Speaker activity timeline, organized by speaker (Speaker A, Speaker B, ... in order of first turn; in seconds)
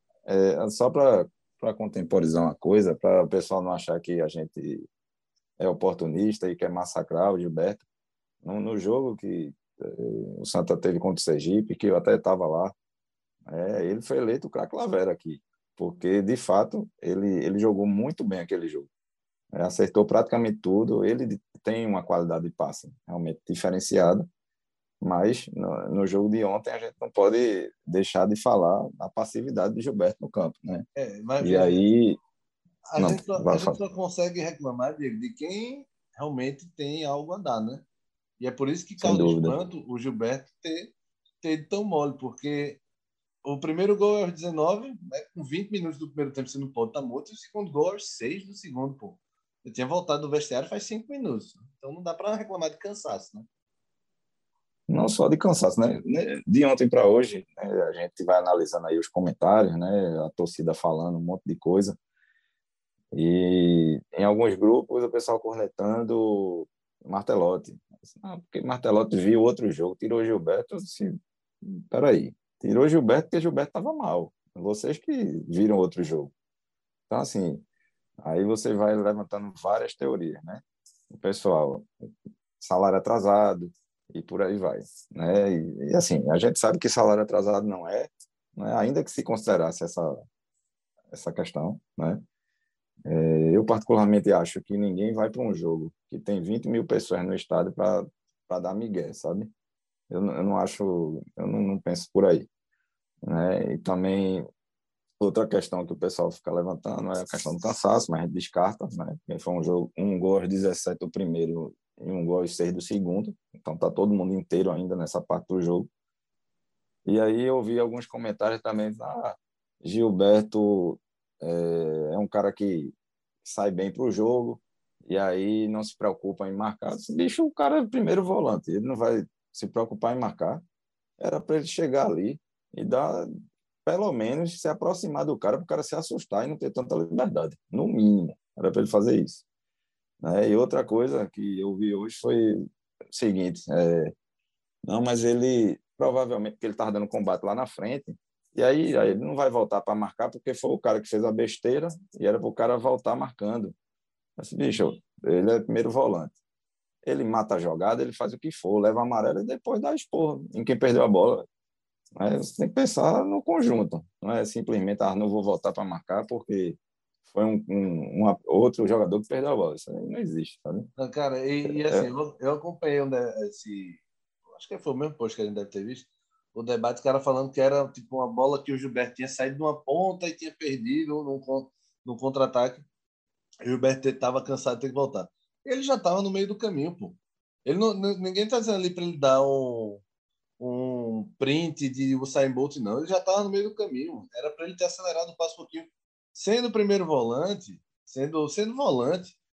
Speaker A: 0.2-4.8, 5.6-7.8, 8.4-12.7, 13.5-18.9, 19.5-24.3, 25.0-30.9, 31.4-32.2, 33.0-33.8, 39.0-39.6, 54.9-62.0, 63.1-71.1, 71.6-76.3, 77.1-77.6, 78.2-81.9, 82.6-90.2, 91.1-92.2, 93.1-99.5, 100.1-102.5, 103.2-104.5, 105.2-115.9, 117.0-122.9, 123.4-130.6, 131.2-133.3, 133.8-139.4, 140.2-144.1, 144.9-153.7, 154.4-156.3, 157.0-161.5, 162.2-170.9, 171.7-172.1
Speaker B: 30.9-31.8, 32.9-37.8, 38.4-42.8, 43.4-53.5, 171.0-174.0, 174.5-182.8, 183.6-190.0, 190.6-199.3